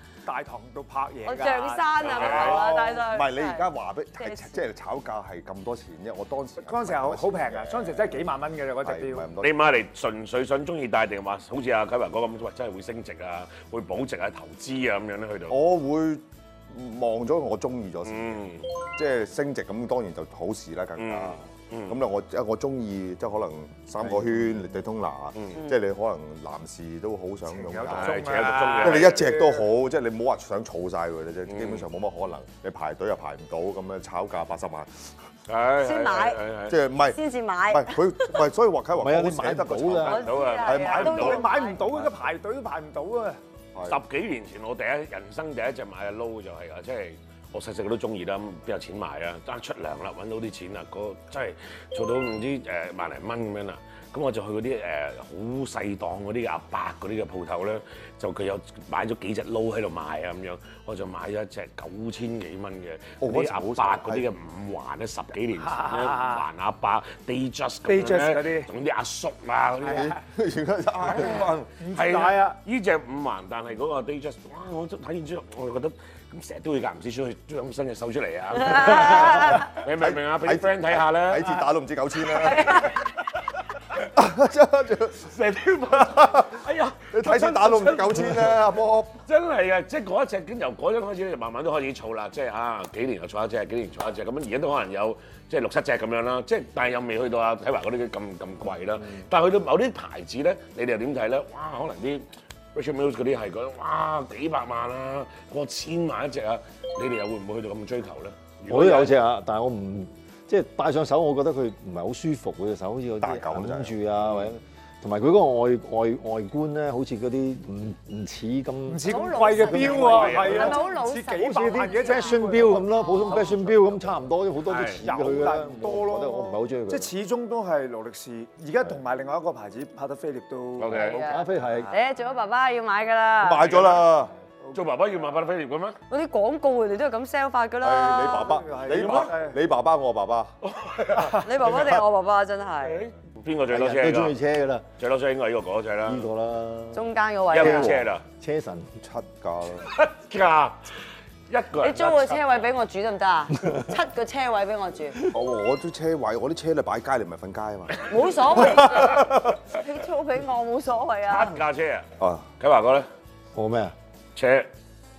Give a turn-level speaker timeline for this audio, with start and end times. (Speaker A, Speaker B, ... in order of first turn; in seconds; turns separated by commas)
Speaker A: 0.2-3.0, Speaker B: 1.2-4.6, Speaker C: 2.0-2.6, Speaker D: 2.3-8.3, Speaker A: 6.6-9.3, Speaker D: 8.8-9.6, Speaker C: 9.4-15.6, Speaker D: 15.5-35.1, Speaker C: 18.0-18.7, Speaker C: 21.0-22.0, Speaker C: 25.3-25.6, Speaker A: 27.5-29.6, Speaker C: 27.9-29.3, Speaker C: 31.5-31.8, Speaker C: 35.5-36.8, Speaker B: 35.8-36.4, Speaker D: 36.7-41.5, Speaker B: 37.0-38.4, Speaker E: 38.9-40.2, Speaker B: 40.0-41.8, Speaker C: 40.0-41.2, Speaker A: 40.8-43.4, Speaker D: 43.7-44.0, Speaker C: 43.9-70.1, Speaker D: 63.2-64.2, Speaker A: 65.6-66.4, Speaker A: 67.9-68.7, Speaker D: 69.8-71.7, Speaker A: 71.2-72.6, Speaker C: 71.9-81.6, Speaker B: 78.6-79.7, Speaker D: 78.9-83.0, Speaker B: 82.5-82.9, Speaker D: 84.0-85.3, Speaker C: 85.3-88.6, Speaker D: 85.8-89.1, Speaker C: 89.3-109.1, Speaker E: 108.7-120.8, Speaker D: 113.2-113.9, Speaker C: 114.1-114.5, Speaker A: 118.9-122.9, Speaker B: 119.0-123.5, Speaker C: 120.0-120.8, Speaker E: 121.6-127.1, Speaker C: 124.6-125.0, Speaker A: 125.0-131.9, Speaker C: 130.8-131.2, Speaker B: 130.9-133.8, Speaker E: 131.2-131.9, Speaker D: 133.4-134.3, Speaker C: 133.6-134.1, Speaker C: 134.7-136.0, Speaker B: 136.1-138.6, Speaker D: 137.8-140.5, Speaker A: 138.4-139.6, Speaker C: 138.9-139.3, Speaker C: 140.6-141.4, Speaker A: 141.1-141.4, Speaker B: 141.4-143.0, Speaker D: 141.6-141.9, Speaker C: 142.8-144.4, Speaker E: 143.7-144.8, Speaker C: 145.0-146.3, Speaker E: 146.0-148.9, Speaker B: 146.9-147.9, Speaker C: 147.5-148.2, Speaker D: 147.6-148.0, Speaker D: 149.0-149.9, Speaker C: 149.9-150.9, Speaker C: 151.5-152.6, Speaker B: 151.8-155.2, Speaker D: 155.3-159.6, Speaker B: 158.1-161.6, Speaker C: 161.3-162.1, Speaker D: 162.2-162.5, Speaker C: 162.6-163.1, Speaker E: 163.5-163.9, Speaker C: 164.3-164.7